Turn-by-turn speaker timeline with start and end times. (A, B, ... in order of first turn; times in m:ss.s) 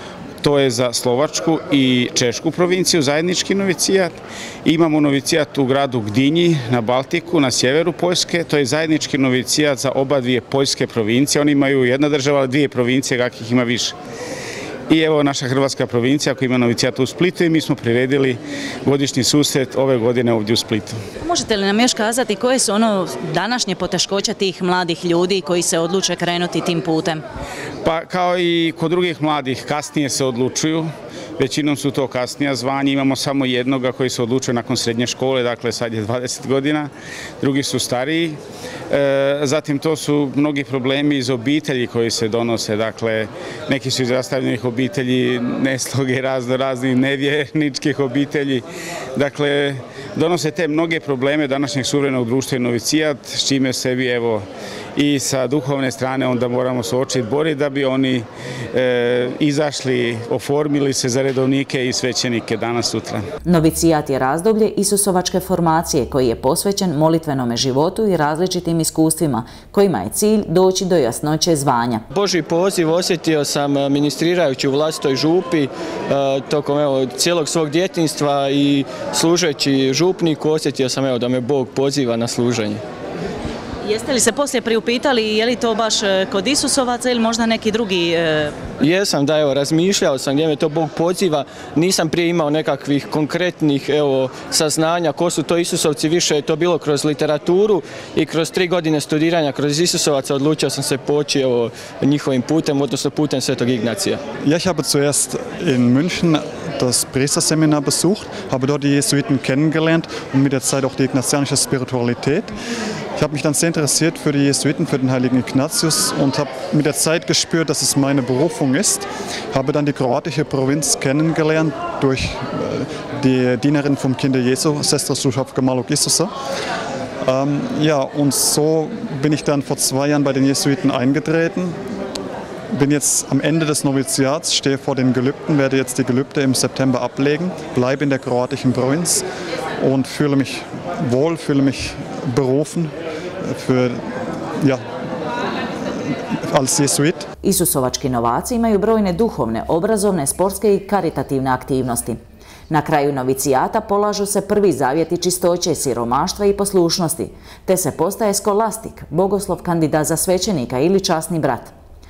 0:00.4-0:13.9 A
0:14.9-0:21.0 A
0:21.2-0:27.2 B
0:27.8-0:38.4 A
0:38.9-0:54.4 A
0:55.0-1:03.2 A
1:03.4-1:12.0 B
1:12.1-1:22.8 C
1:23.9-1:28.5 B
1:28.8-1:44.2 C
1:44.4-1:52.5 D
1:53.2-2:06.3 D
2:07.2-2:11.8 D
2:12.7-2:19.2 D
2:19.8-2:22.9 D
2:23.4-2:24.0 D
2:26.5-2:27.3 D
2:27.4-2:32.2 B
2:32.7-2:41.7 B